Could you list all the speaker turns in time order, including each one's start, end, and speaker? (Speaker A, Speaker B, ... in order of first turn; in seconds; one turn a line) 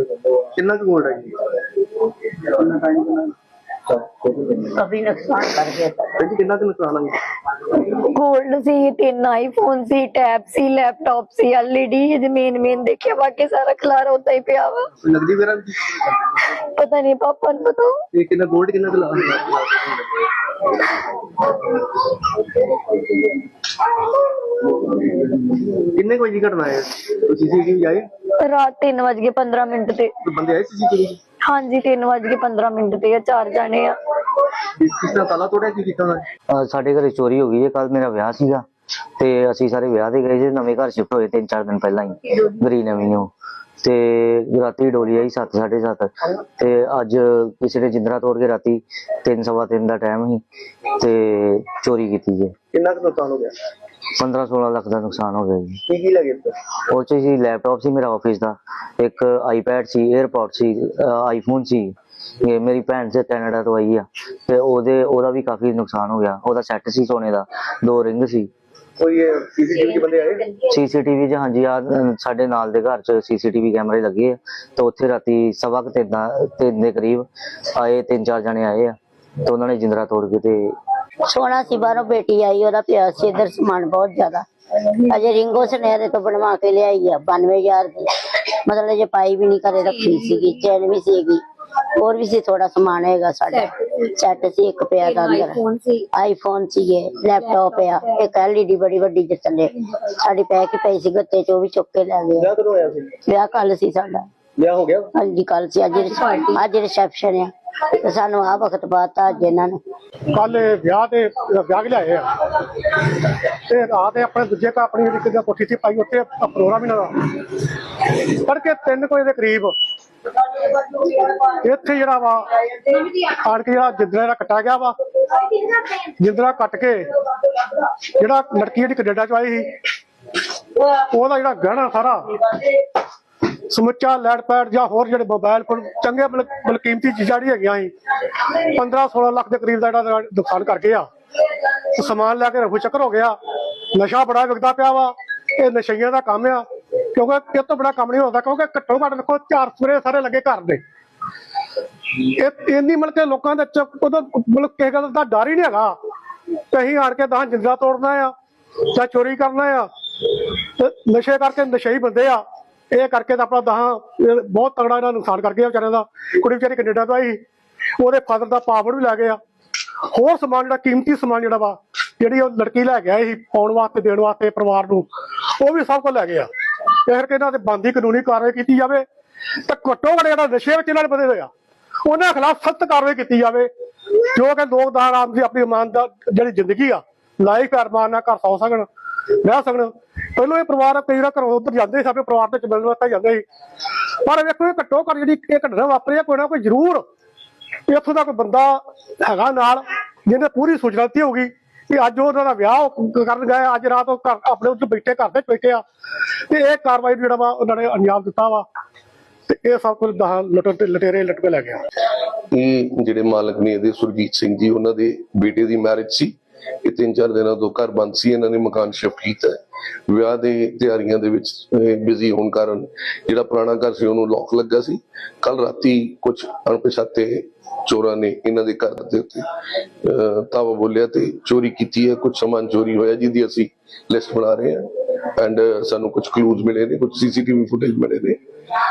Speaker A: 0.6-1.4
Speaker B: 2.7-3.2
Speaker B: 4.4-6.3
Speaker A: 6.2-7.2
Speaker C: 7.8-14.9
Speaker A: 15.0-16.1
Speaker C: 16.4-17.9
Speaker A: 18.1-20.1
Speaker A: 25.9-28.1
Speaker C: 28.4-30.1
Speaker A: 30.3-31.2
Speaker C: 31.4-33.9
Speaker A: 34.8-36.3
Speaker D: 36.5-38.6
Speaker D: 39.2-43.3
Speaker D: 43.8-50.4
Speaker D: 50.9-52.5
Speaker A: 52.7-53.5
Speaker D: 54.1-55.8
Speaker A: 55.9-56.6
Speaker D: 56.9-68.5
Speaker A: 69.0-70.5
Speaker D: 70.7-80.7
Speaker B: 81.3-84.5
Speaker B: 85.0-91.4
Speaker B: 91.9-95.6
Speaker C: 95.1-96.1
Speaker B: 96.1-102.5
Speaker A: 102.6-103.1
Speaker B: 103.2-104.3
Speaker A: 104.6-105.1
Speaker B: 105.1-109.8
Speaker E: 110.3-119.7
Speaker E: 120.7-127.1
Speaker E: 128.0-129.7
Speaker E: 130.7-132.8
Speaker E: 133.4-143.4
Speaker E: 143.9-146.6
Speaker E: 147.1-150.8
Speaker E: 152.1-155.9
Speaker E: 156.7-159.9
Speaker E: 160.8-167.4
Speaker E: 168.0-169.4
Speaker E: 170.1-176.5
Speaker E: 177.0-179.1
Speaker E: 179.6-181.5
Speaker E: 182.0-183.7
Speaker E: 184.3-188.9
Speaker E: 189.4-193.4
Speaker E: 194.2-197.1
Speaker E: 197.9-205.8
Speaker E: 206.5-208.7
Speaker E: 209.5-211.8
Speaker F: 212.5-229.5
Speaker F: 230.0-238.4